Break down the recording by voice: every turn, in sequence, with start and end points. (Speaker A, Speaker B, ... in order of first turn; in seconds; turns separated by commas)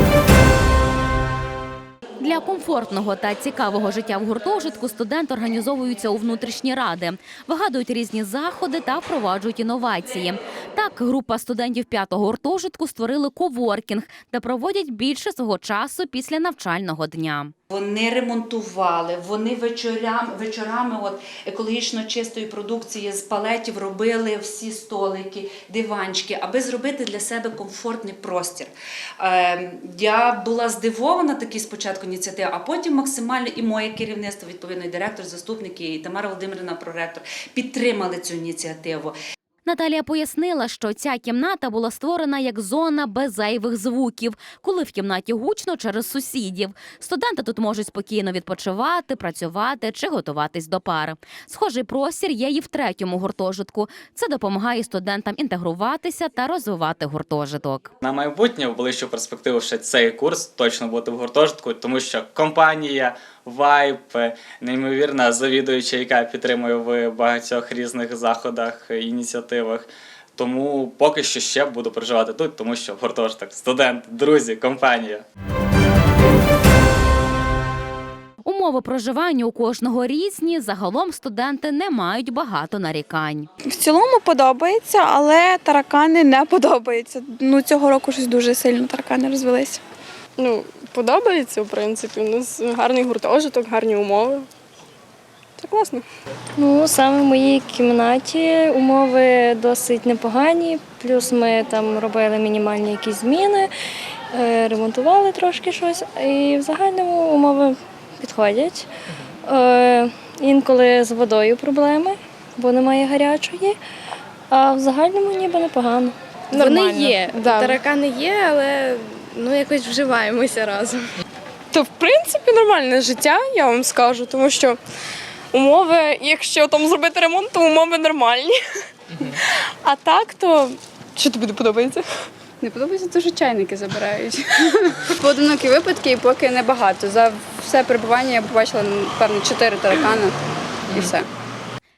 Speaker A: 2.2-17.5, Speaker B: 17.7-39.1, Speaker A: 39.6-57.9, Speaker C: 58.0-75.2, Speaker A: 78.4-83.5, Speaker D: 83.6-89.8, Speaker E: 90.4-94.5, Speaker E: 95.6-96.0, Speaker F: 96.6-103.7, Speaker F: 104.3-108.9, Speaker F: 109.5-113.8, Speaker F: 114.5-117.5, Speaker E: 121.7-124.8, Speaker E: 125.5-128.6, Speaker E: 129.3-132.0, Speaker G: 132.6-134.3, Speaker G: 135.2-140.3, Speaker G: 140.9-141.2